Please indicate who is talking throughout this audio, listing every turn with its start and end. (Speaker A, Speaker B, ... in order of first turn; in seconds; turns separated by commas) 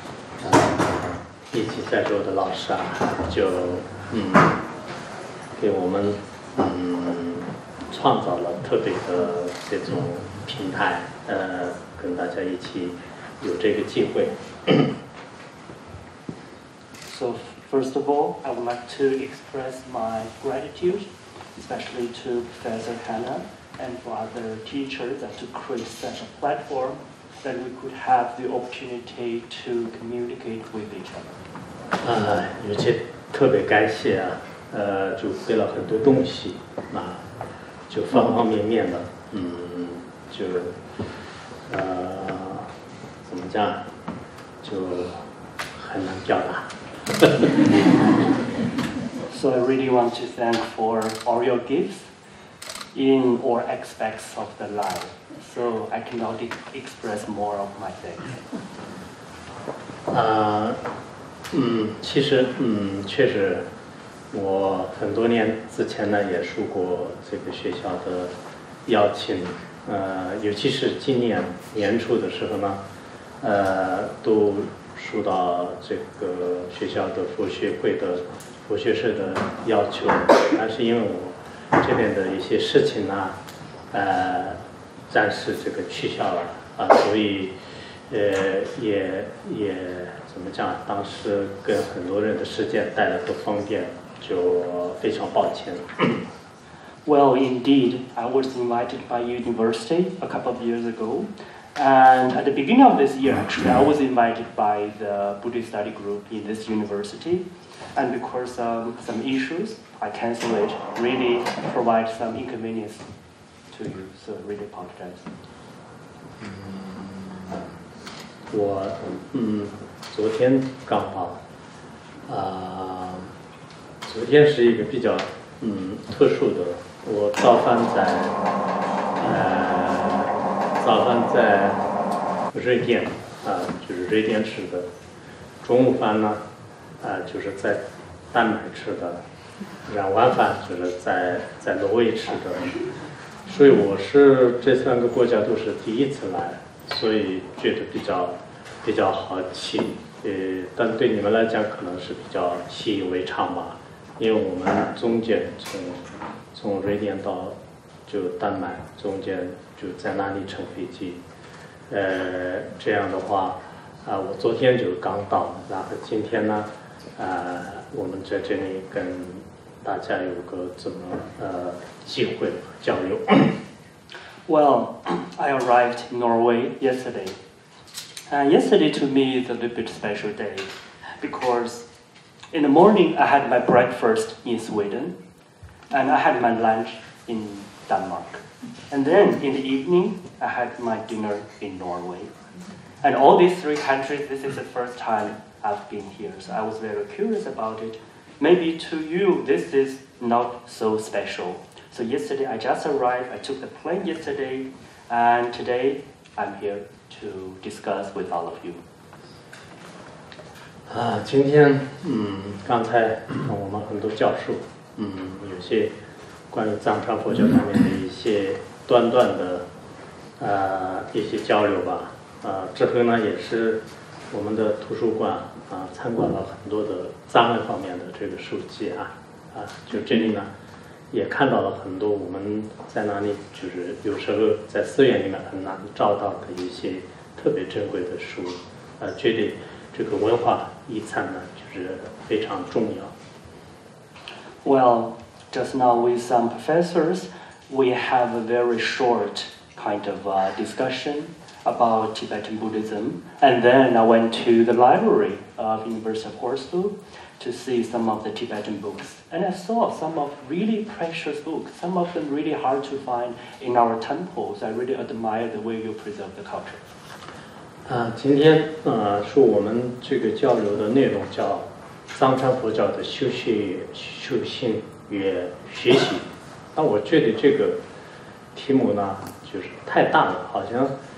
Speaker A: 0.4-4.6, Speaker A: 5.6-14.9, Speaker B: 17.1-31.4, Speaker A: 32.0-37.3, Speaker A: 37.9-40.8, Speaker A: 41.7-42.7, Speaker A: 43.2-43.9, Speaker A: 44.6-47.8, Speaker B: 49.3-52.1, Speaker B: 52.9-58.4, Speaker A: 60.1-60.8, Speaker A: 61.5-63.6, Speaker A: 64.3-68.3, Speaker A: 68.9-72.8, Speaker A: 73.4-83.4, Speaker A: 83.9-87.6, Speaker A: 88.1-96.2, Speaker B: 97.0-113.0, Speaker B: 113.7-115.3, Speaker A: 116.4-117.7, Speaker A: 118.5-121.4, Speaker A: 122.3-123.3, Speaker A: 124.0-128.4, Speaker A: 129.2-131.8, Speaker A: 132.5-134.9, Speaker A: 135.6-136.4, Speaker A: 137.0-139.2, Speaker A: 139.8-142.8, Speaker A: 143.5-161.2, Speaker A: 161.9-173.6, Speaker B: 174.5-177.4, Speaker B: 178.3-181.9, Speaker B: 182.5-185.2, Speaker B: 185.9-192.3, Speaker B: 193.0-208.8, Speaker A: 210.9-215.9, Speaker A: 216.5-219.7, Speaker A: 220.4-223.8, Speaker A: 224.3-230.5, Speaker A: 231.1-243.1, Speaker B: 244.6-266.8, Speaker A: 267.9-277.8, Speaker A: 278.5-280.9